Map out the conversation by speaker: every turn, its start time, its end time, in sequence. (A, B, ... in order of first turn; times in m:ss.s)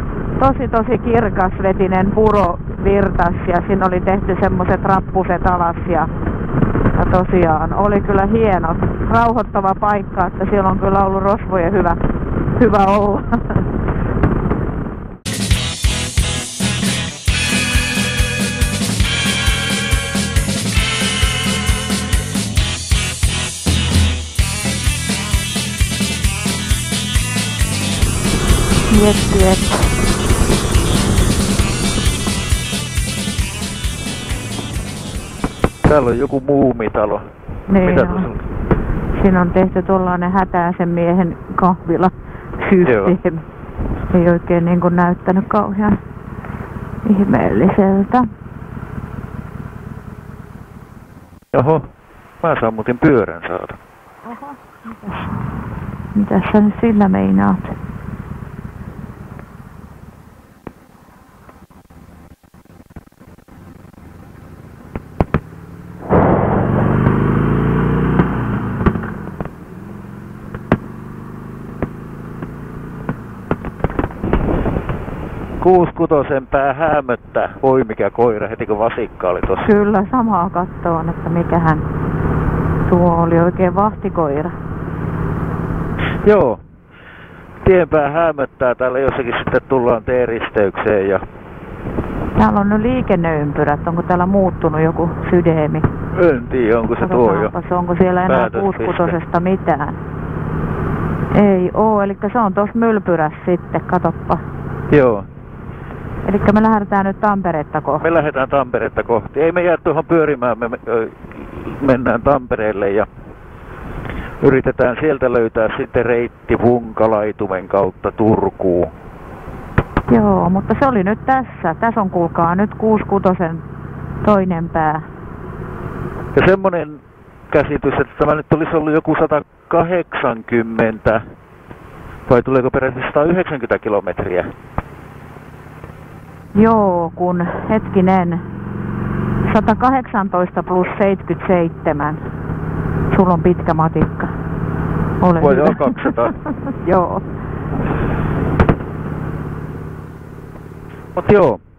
0:00.4-0:06.1 A
0:06.9-0:12.0 A
0:12.6-0:13.6 A
0:28.9-0:29.8 A
0:35.8-0:37.2 B
0:37.7-0:38.3 A
0:37.8-0:38.4 B
0:39.1-0:43.4 A
0:42.8-0:43.2 B
0:44.1-0:46.0 A
0:47.0-0:48.3 A
0:51.5-0:51.8 B
0:52.4-0:53.8 B
0:54.3-0:55.3 A
0:56.2-0:57.7 A
1:15.6-1:19.7 B
1:19.6-1:21.9 A
1:22.9-1:24.5 A
1:26.2-1:26.6 B
1:27.6-1:31.2 B
1:32.4-1:35.9 A
1:36.2-1:37.5 B
1:36.9-1:40.0 A
1:38.3-1:39.2 B
1:41.3-1:44.4 A
1:44.9-1:45.3 B
1:46.3-1:48.0 A
1:48.0-1:53.1 B
1:54.4-1:58.9 B
2:00.1-2:03.6 A
2:04.2-2:05.1 A
2:06.4-2:11.2 B
2:12.3-2:14.5 B
2:16.6-2:18.4 A
2:19.5-2:22.2 A
2:23.1-2:24.3 A
2:25.2-2:26.2 A
2:25.4-2:26.3 B
2:26.7-2:27.2 A
2:31.2-2:31.6 B